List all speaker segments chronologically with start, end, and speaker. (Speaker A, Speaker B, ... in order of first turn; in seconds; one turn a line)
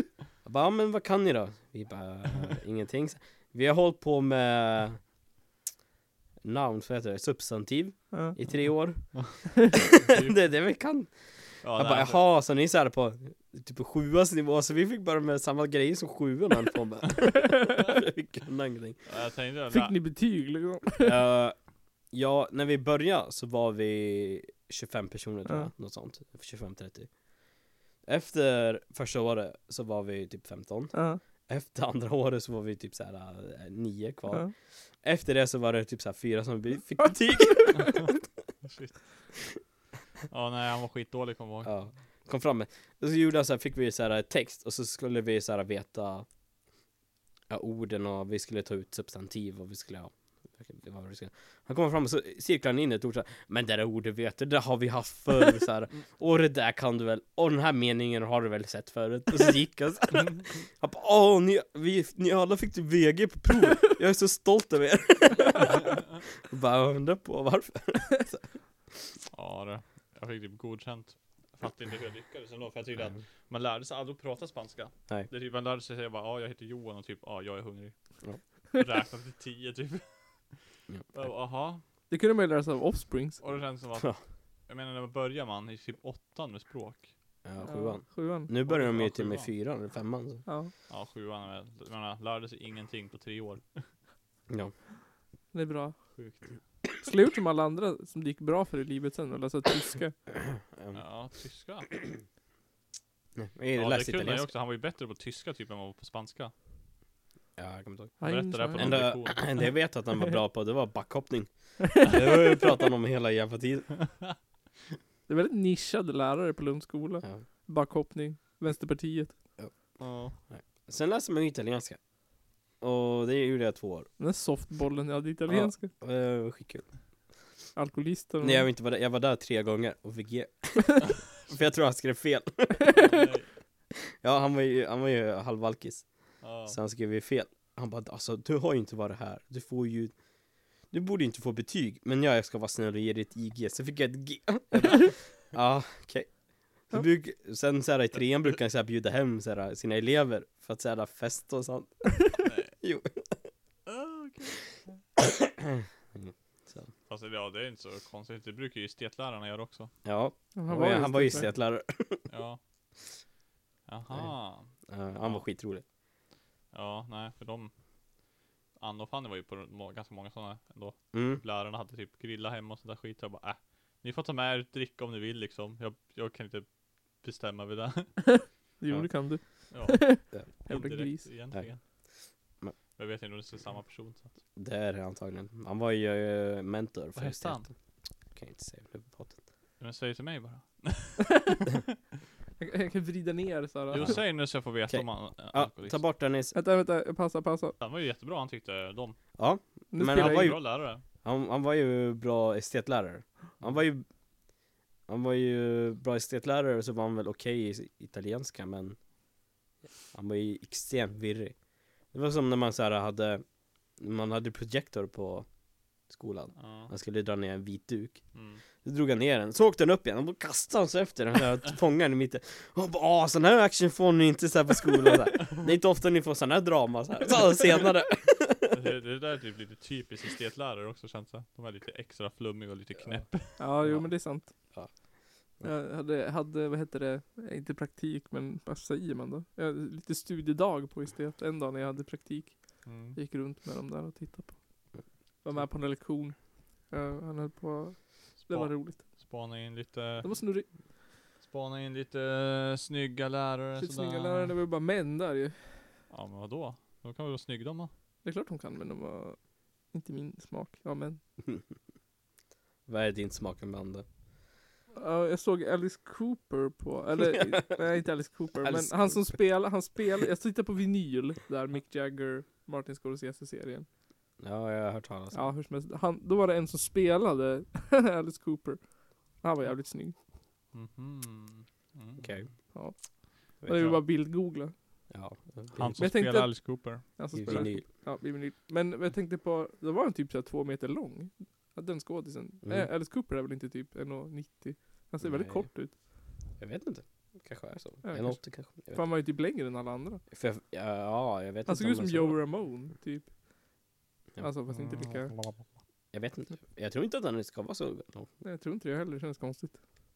Speaker A: 0.4-5.0
Speaker A: 6.4-19.0
Speaker B: 10.0-10.7
Speaker B: 11.6-12.2
Speaker B: 19.1-19.9
Speaker C: 19.7-21.2
Speaker A: 21.0-21.6
Speaker A: 22.1-27.1
Speaker A: 28.0-30.9
Speaker C: 30.9-31.2
Speaker A: 31.5-38.2
Speaker B: 37.8-38.0
Speaker B: 38.6-39.0
Speaker B: 40.3-41.7
Speaker A: 41.6-46.2
Speaker A: 47.5-69.0
Speaker B: 69.3-77.9
Speaker B: 78.7-80.6
Speaker B: 81.1-81.8
Speaker C: 82.1-83.4
Speaker B: 83.4-87.1
Speaker A: 87.4-90.4
Speaker C: 87.6-88.5
Speaker B: 88.7-89.5
Speaker B: 90.9-93.9
Speaker C: 95.5-96.0
Speaker B: 96.2-96.5
Speaker C: 97.0-100.2
Speaker A: 100.5-101.0
Speaker B: 100.9-102.0
Speaker A: 103.4-104.5
Speaker B: 103.7-106.5
Speaker A: 107.6-108.2
Speaker C: 108.2-109.0
Speaker B: 108.2-109.7
Speaker A: 108.7-113.9
Speaker C: 115.3-119.4
Speaker A: 119.6-122.0
Speaker B: 120.0-120.4
Speaker A: 122.8-124.1
Speaker C: 124.2-125.9
Speaker A: 125.5-126.9
Speaker C: 127.8-128.7
Speaker A: 128.4-133.3
Speaker B: 132.9-133.5
Speaker A: 134.1-136.1
Speaker B: 136.4-136.8
Speaker A: 136.7-140.1
Speaker A: 140.9-152.2
Speaker B: 152.4-152.7
Speaker A: 152.8-153.4
Speaker B: 153.9-154.8
Speaker A: 155.2-156.9
Speaker B: 157.1-159.9
Speaker A: 160.0-162.3
Speaker C: 160.6-161.5
Speaker B: 162.3-162.6
Speaker B: 163.9-165.4
Speaker A: 164.9-165.8
Speaker B: 166.7-167.7
Speaker B: 168.8-178.5
Speaker A: 171.1-171.4
Speaker C: 178.2-181.2
Speaker B: 179.7-181.8
Speaker B: 182.9-184.3
Speaker A: 184.6-187.7
Speaker B: 187.2-187.7
Speaker A: 188.3-189.4
Speaker B: 189.8-191.8
Speaker C: 192.6-194.1
Speaker B: 193.9-196.0
Speaker A: 194.9-196.5
Speaker C: 196.5-197.7
Speaker B: 197.8-199.2
Speaker A: 199.4-200.6
Speaker C: 199.9-200.5
Speaker B: 200.2-201.0
Speaker A: 201.2-204.0
Speaker A: 205.1-209.0
Speaker A: 210.1-211.5
Speaker A: 212.1-213.4
Speaker A: 214.0-215.4
Speaker A: 216.1-218.2
Speaker B: 216.6-216.9
Speaker B: 218.3-218.6
Speaker A: 218.8-228.8
Speaker B: 228.7-233.6
Speaker C: 233.6-234.5
Speaker C: 235.6-244.6
Speaker B: 242.8-243.2
Speaker C: 245.4-249.0
Speaker B: 248.4-250.4
Speaker C: 250.2-250.7
Speaker B: 251.4-254.5
Speaker C: 253.8-255.9
Speaker B: 256.1-257.9
Speaker C: 258.2-261.2
Speaker A: 262.9-264.1
Speaker C: 264.9-273.9
Speaker A: 268.6-269.4
Speaker A: 274.4-275.5
Speaker C: 275.3-278.8
Speaker C: 279.4-280.1
Speaker B: 280.7-282.4
Speaker A: 282.2-282.5
Speaker C: 282.7-284.7
Speaker A: 283.6-283.9
Speaker A: 285.1-286.1
Speaker B: 285.8-287.6
Speaker C: 286.0-295.9
Speaker A: 287.4-287.8
Speaker A: 292.6-292.9
Speaker A: 295.2-295.7
Speaker A: 296.6-299.0
Speaker C: 298.0-300.2
Speaker A: 300.3-302.4
Speaker C: 301.7-303.3
Speaker C: 304.4-305.4
Speaker B: 304.7-305.6
Speaker A: 306.1-308.3
Speaker C: 308.4-309.8